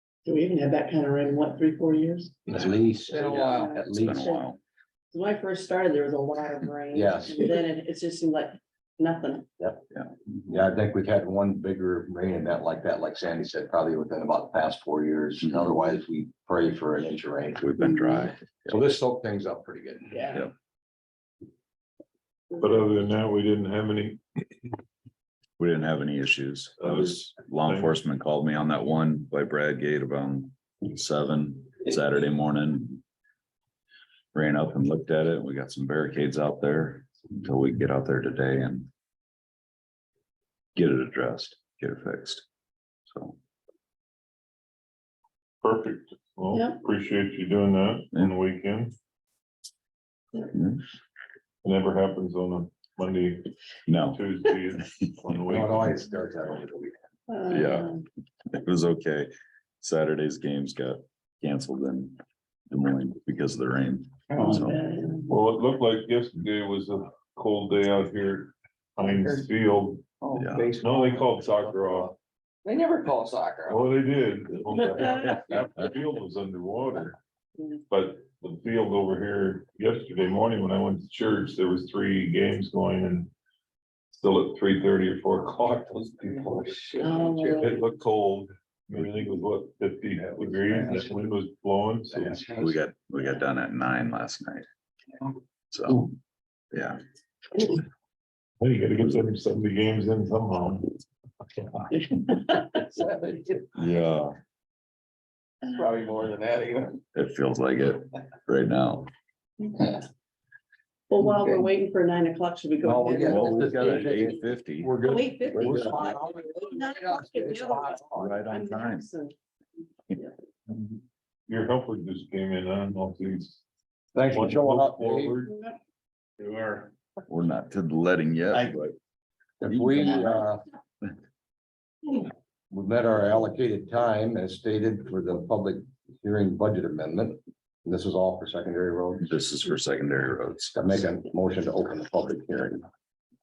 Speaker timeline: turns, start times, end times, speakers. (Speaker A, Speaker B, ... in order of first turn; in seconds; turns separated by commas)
Speaker A: 0.2-2.3, Speaker B: 2.5-4.3, Speaker C: 3.1-3.8, Speaker A: 3.1-4.4, Speaker D: 3.9-4.6, Speaker A: 5.1-9.5, Speaker B: 6.9-7.5, Speaker B: 10.5-17.7, Speaker D: 17.6-18.7, Speaker A: 17.8-18.3, Speaker B: 18.6-20.4, Speaker A: 20.1-20.4, Speaker E: 22.6-24.4, Speaker D: 25.6-33.0, Speaker E: 26.8-27.9, Speaker D: 34.3-38.9, Speaker D: 40.8-42.5, Speaker D: 43.1-43.4, Speaker E: 45.6-48.9, Speaker A: 46.5-46.8, Speaker D: 50.5-50.8, Speaker E: 51.6-53.5, Speaker D: 53.9-54.2, Speaker E: 54.1-56.0, Speaker B: 55.5-56.9, Speaker A: 57.3-58.0, Speaker D: 57.5-58.0, Speaker D: 58.5-64.8, Speaker C: 64.3-64.7, Speaker A: 64.4-65.3, Speaker E: 65.3-70.0, Speaker C: 69.0-69.5, Speaker C: 70.2-72.0, Speaker D: 70.3-70.8, Speaker E: 70.8-72.1, Speaker C: 72.6-73.8, Speaker E: 73.7-77.2, Speaker E: 77.9-83.3, Speaker E: 84.1-86.7, Speaker C: 86.2-87.8, Speaker A: 87.0-87.8, Speaker E: 87.6-92.4, Speaker C: 90.6-91.1, Speaker C: 92.2-92.7, Speaker D: 92.4-94.7, Speaker D: 95.7-96.1, Speaker D: 96.7-97.0, Speaker E: 98.6-100.9, Speaker A: 102.1-102.6, Speaker C: 102.8-103.6, Speaker D: 103.8-104.3, Speaker C: 105.7-107.0, Speaker D: 107.1-109.1, Speaker A: 111.1-114.4, Speaker B: 112.8-116.6, Speaker D: 113.2-114.9, Speaker A: 115.0-119.3, Speaker D: 115.6-115.9, Speaker C: 116.3-116.6, Speaker B: 117.4-118.2, Speaker D: 118.1-119.0, Speaker E: 121.5-123.6, Speaker B: 124.1-125.4, Speaker E: 124.3-125.5, Speaker A: 125.5-125.8, Speaker D: 127.3-128.8, Speaker B: 129.6-130.6, Speaker D: 129.7-130.4, Speaker B: 132.7-139.2, Speaker D: 139.2-141.0, Speaker B: 140.7-142.8